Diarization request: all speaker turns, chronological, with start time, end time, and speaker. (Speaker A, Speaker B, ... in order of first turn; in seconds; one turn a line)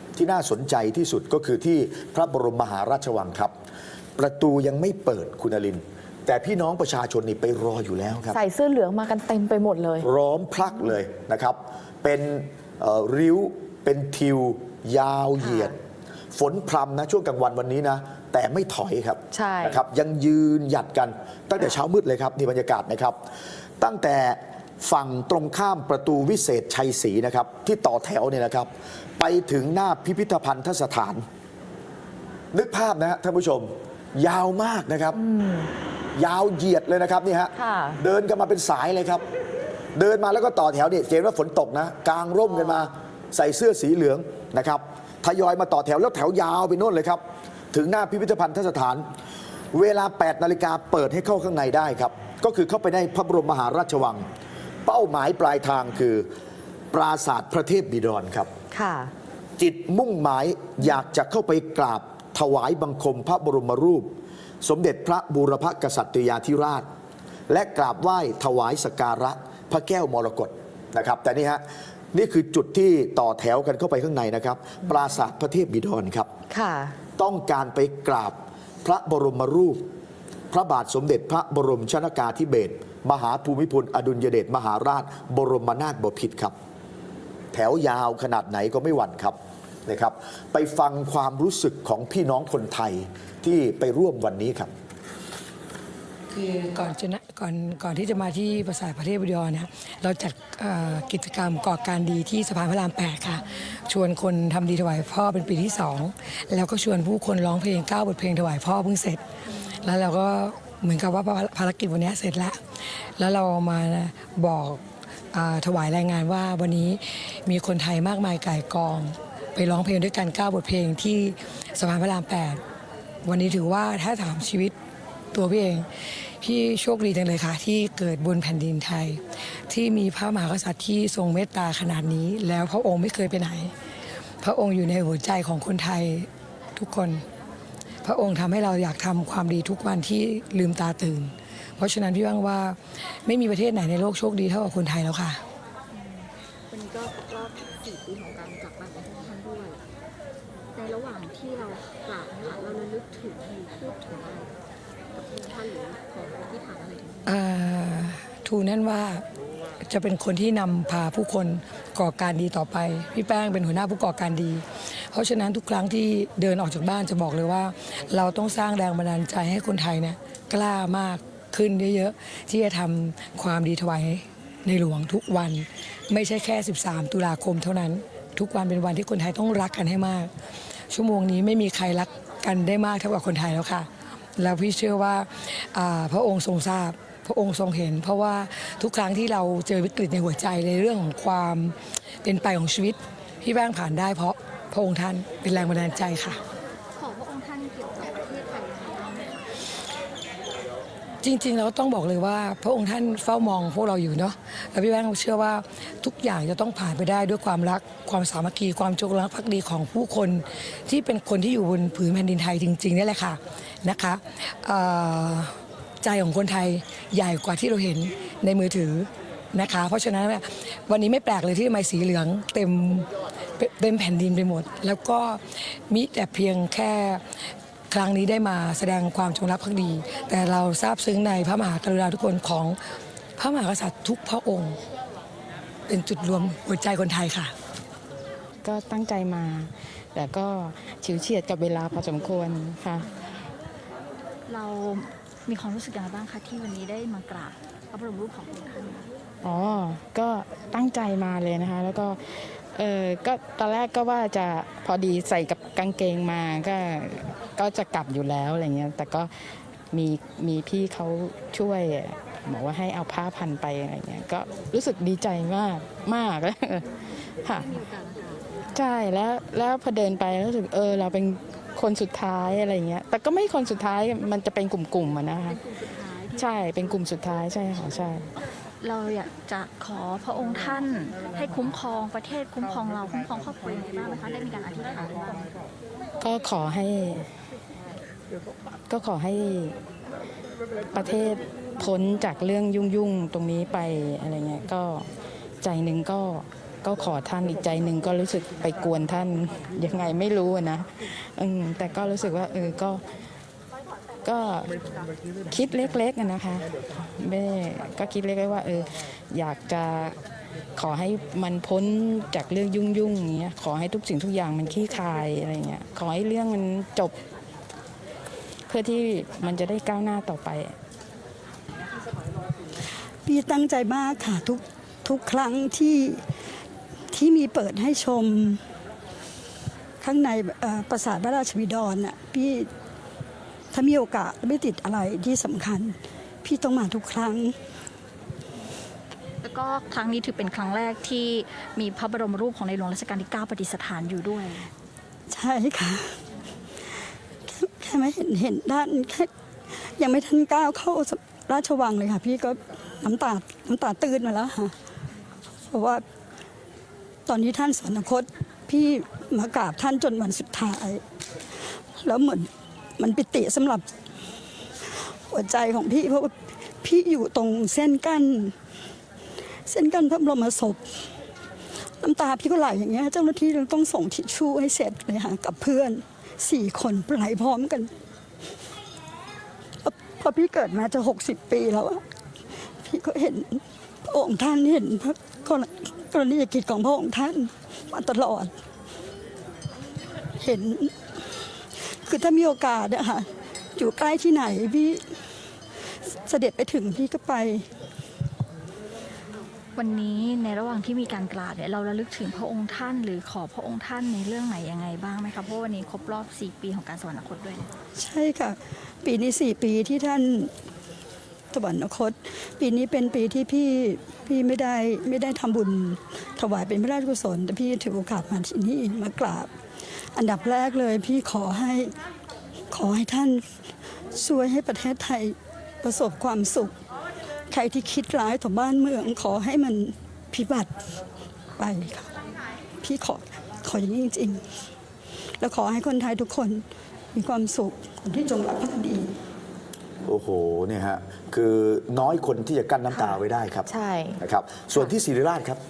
Speaker A: 0.1-3.5
Speaker A: 4.2-8.4
Speaker B: 8.3-10.1
Speaker A: 10.0-15.7
Speaker B: 15.4-15.7
Speaker A: 16.3-23.2
Speaker B: 19.3-19.8
Speaker A: 23.8-31.2
Speaker A: 32.5-35.2
Speaker B: 35.1-35.7
Speaker A: 36.1-39.2
Speaker B: 37.5-38.0
Speaker A: 39.9-49.0
Speaker A: 49.7-54.3
Speaker A: 54.9-56.3
Speaker A: 56.9-58.5
Speaker B: 58.7-59.1
Speaker A: 59.6-64.1
Speaker A: 64.6-66.8
Speaker A: 67.5-76.3
Speaker B: 76.5-77.0
Speaker A: 77.2-79.8
Speaker A: 80.5-86.5
Speaker A: 87.5-94.7
Speaker C: 96.3-109.2
Speaker C: 109.8-112.6
Speaker C: 113.2-114.8
Speaker C: 115.3-122.6
Speaker C: 123.2-124.7
Speaker C: 125.3-125.9
Speaker C: 126.4-133.7
Speaker C: 134.4-137.2
Speaker C: 138.0-145.4
Speaker D: 145.9-149.8
Speaker D: 150.7-154.5
Speaker D: 155.1-157.4
Speaker C: 157.2-159.2
Speaker C: 159.8-180.3
Speaker C: 180.9-196.4
Speaker D: 197.0-199.4
Speaker C: 201.2-227.2
Speaker C: 227.9-232.8
Speaker C: 233.4-234.8
Speaker C: 235.9-237.5
Speaker E: 238.6-243.1
Speaker D: 244.5-249.1
Speaker E: 249.4-267.8
Speaker D: 267.6-268.4
Speaker E: 268.7-275.6
Speaker D: 276.1-276.4
Speaker E: 276.3-278.2
Speaker D: 278.8-285.5
Speaker E: 286.2-287.3
Speaker E: 288.9-289.8
Speaker E: 290.9-295.1
Speaker E: 295.6-303.0
Speaker E: 304.2-304.7
Speaker E: 305.5-310.2
Speaker E: 310.8-317.1
Speaker E: 318.7-320.8
Speaker F: 323.2-326.2
Speaker F: 327.1-328.6
Speaker F: 330.0-332.7
Speaker F: 333.7-337.5
Speaker D: 339.4-344.7
Speaker F: 345.3-346.1
Speaker F: 347.5-349.3
Speaker F: 350.0-354.7
Speaker F: 355.7-356.0
Speaker F: 357.3-361.0
Speaker F: 362.0-363.9
Speaker F: 365.3-368.5
Speaker F: 369.7-370.8
Speaker F: 372.0-377.9
Speaker F: 379.8-382.0
Speaker F: 382.8-388.5
Speaker F: 390.4-390.9
Speaker F: 392.1-395.0
Speaker F: 396.3-397.6
Speaker D: 399.8-407.7
Speaker F: 408.0-410.5
Speaker F: 411.5-419.5
Speaker F: 420.1-421.9
Speaker F: 422.7-423.4
Speaker F: 424.1-426.7
Speaker F: 427.5-430.7
Speaker F: 431.6-432.1
Speaker F: 432.8-434.4
Speaker F: 435.4-439.1
Speaker A: 440.1-443.7
Speaker B: 442.9-444.2
Speaker A: 444.2-445.6